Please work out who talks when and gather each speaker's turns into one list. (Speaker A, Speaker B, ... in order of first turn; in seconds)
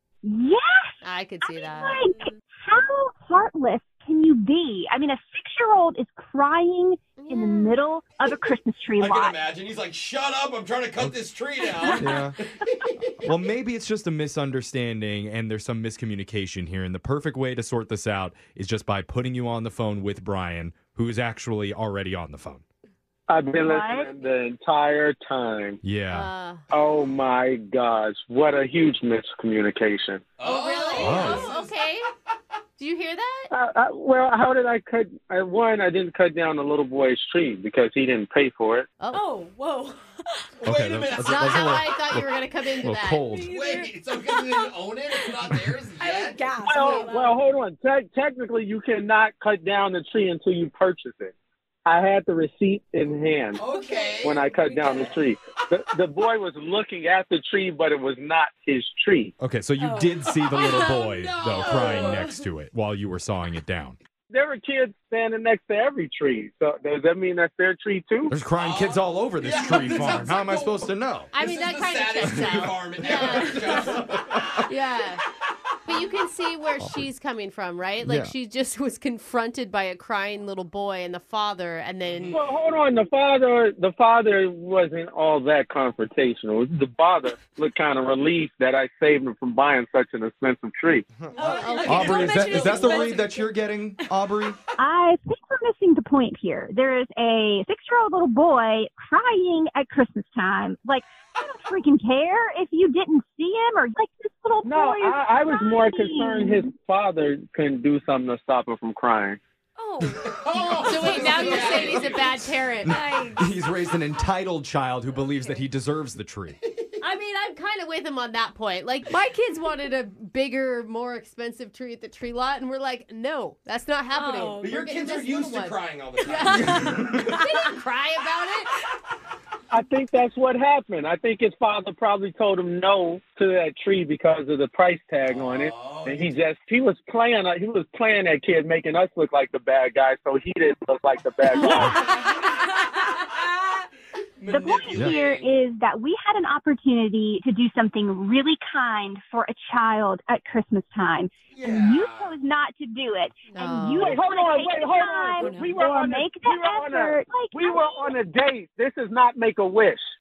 Speaker A: 0.2-9.4, 23.6-24.1, 94.8-106.7, 141.4-142.4, 144.5-158.2
Speaker B: 1.0-2.0, 7.2-7.8, 26.1-26.6, 30.4-32.0, 32.8-33.5, 41.2-43.3, 71.3-74.0, 74.7-75.2, 75.8-82.4, 91.4-93.2, 110.7-113.0, 117.0-128.7, 153.5-154.2
Speaker C: 2.0-2.3, 39.1-40.5, 43.2-45.4, 46.0-47.4, 53.6-55.1, 59.8-62.3, 91.3-94.1, 109.8-111.7, 112.9-113.5, 115.3-115.6, 124.1-124.7, 126.6-127.7, 155.4-155.7
Speaker D: 9.0-13.1, 30.4-31.7, 40.6-41.7, 43.5-47.0, 53.6-54.5, 60.5-62.3, 68.6-74.7, 82.0-82.5, 110.2-112.5, 124.6-127.3, 135.2-136.3, 144.4-145.5, 151.5-152.3
Speaker E: 11.8-12.4, 13.2-22.6, 25.8-26.3, 31.0-31.5, 40.6-42.3, 42.8-43.5, 59.4-64.0, 68.3-71.3, 72.2-74.6, 78.0-78.3, 91.2-94.6, 112.9-116.6, 144.9-145.2
Speaker F: 23.3-25.8, 26.7-30.2, 33.5-38.9, 46.6-51.3, 51.8-53.6, 54.2-59.3, 64.3-68.3, 82.3-91.0, 104.6-109.4, 129.7-142.1, 154.0-160.1